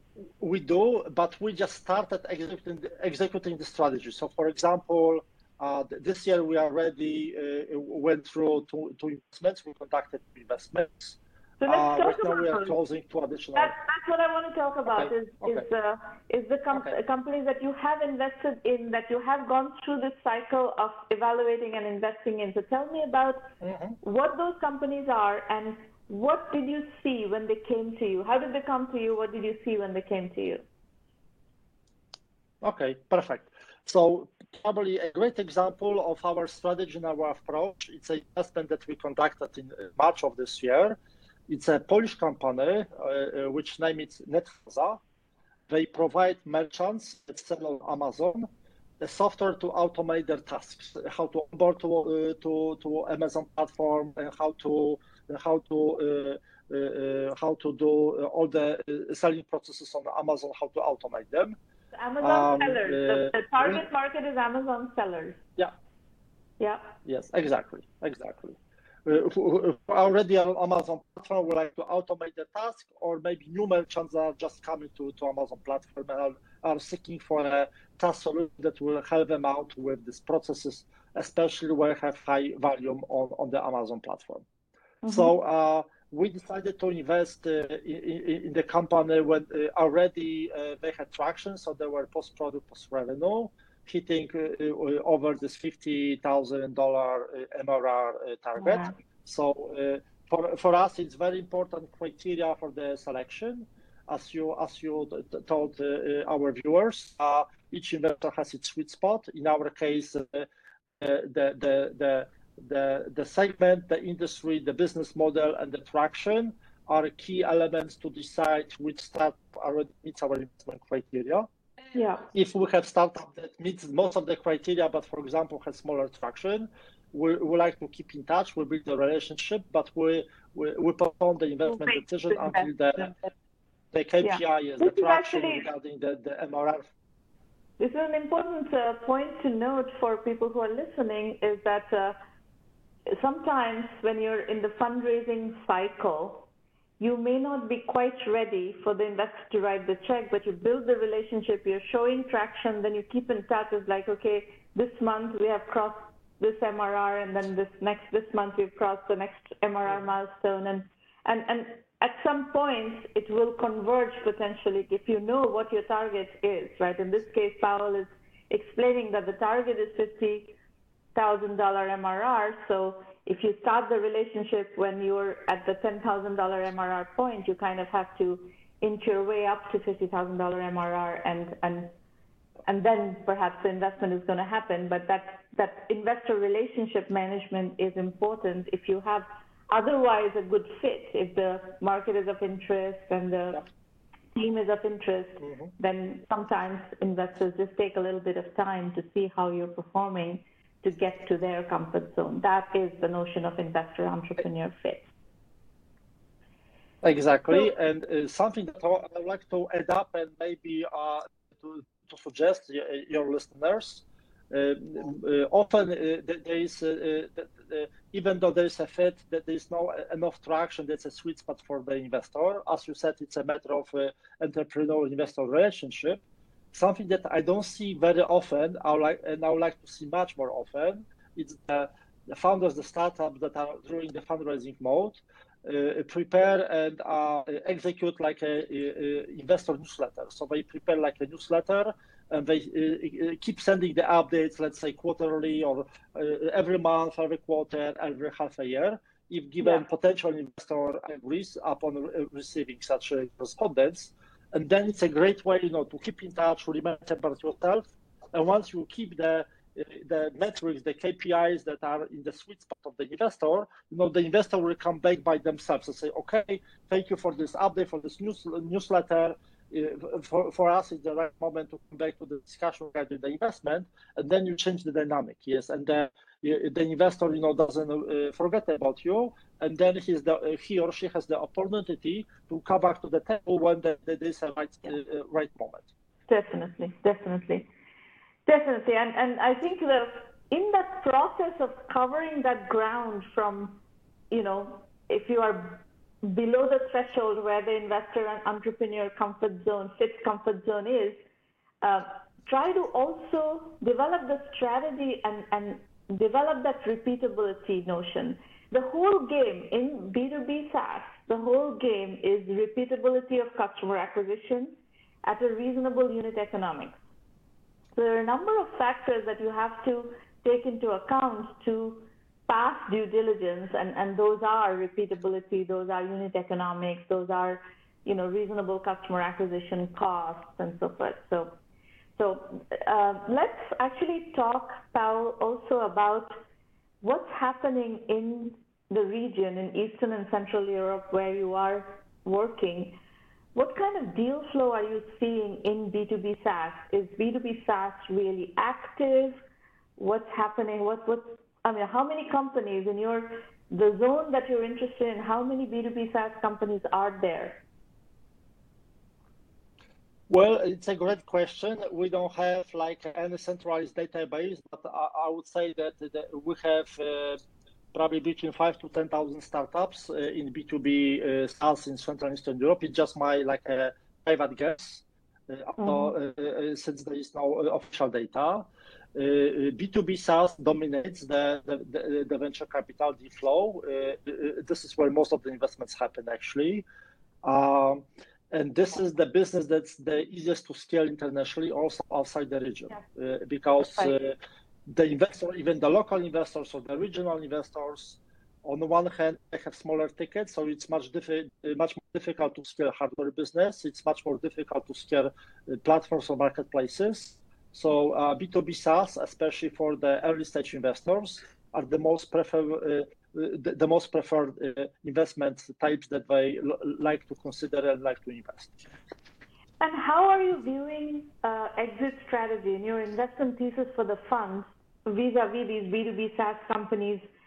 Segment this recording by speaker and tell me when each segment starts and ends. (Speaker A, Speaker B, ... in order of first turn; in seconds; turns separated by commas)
Speaker A: 0.4-13.7, Speaker B: 11.6-12.7, Speaker B: 13.6-23.5, Speaker A: 14.9-15.6, Speaker A: 23.6-24.0, Speaker B: 24.0-30.6, Speaker A: 32.6-41.0, Speaker A: 41.5-45.0, Speaker A: 45.7-48.5, Speaker A: 49.0-61.5, Speaker B: 61.9-65.4, Speaker A: 62.2-63.8, Speaker B: 66.6-66.9, Speaker A: 67.0-84.4, Speaker B: 85.0-85.3, Speaker A: 85.1-110.5, Speaker B: 98.6-98.9, Speaker A: 111.0-121.5, Speaker B: 121.9-122.3, Speaker A: 122.3-133.1, Speaker B: 131.7-133.3, Speaker A: 133.9-136.9, Speaker B: 134.2-135.7, Speaker B: 137.8-142.2, Speaker B: 143.1-146.5, Speaker B: 147.0-170.5, Speaker B: 171.1-181.9, Speaker B: 182.7-193.6, Speaker B: 194.3-205.1, Speaker A: 195.4-195.7, Speaker A: 207.0-285.9, Speaker B: 286.3-287.7, Speaker B: 288.4-301.2, Speaker B: 301.8-317.0, Speaker B: 317.9-331.6, Speaker B: 332.2-336.4, Speaker B: 337.0-343.0, Speaker B: 343.5-349.4, Speaker B: 350.0-357.6, Speaker A: 360.3-367.4, Speaker A: 367.9-386.8, Speaker B: 375.8-376.1, Speaker A: 387.4-394.3, Speaker A: 394.9-418.8, Speaker B: 419.8-427.2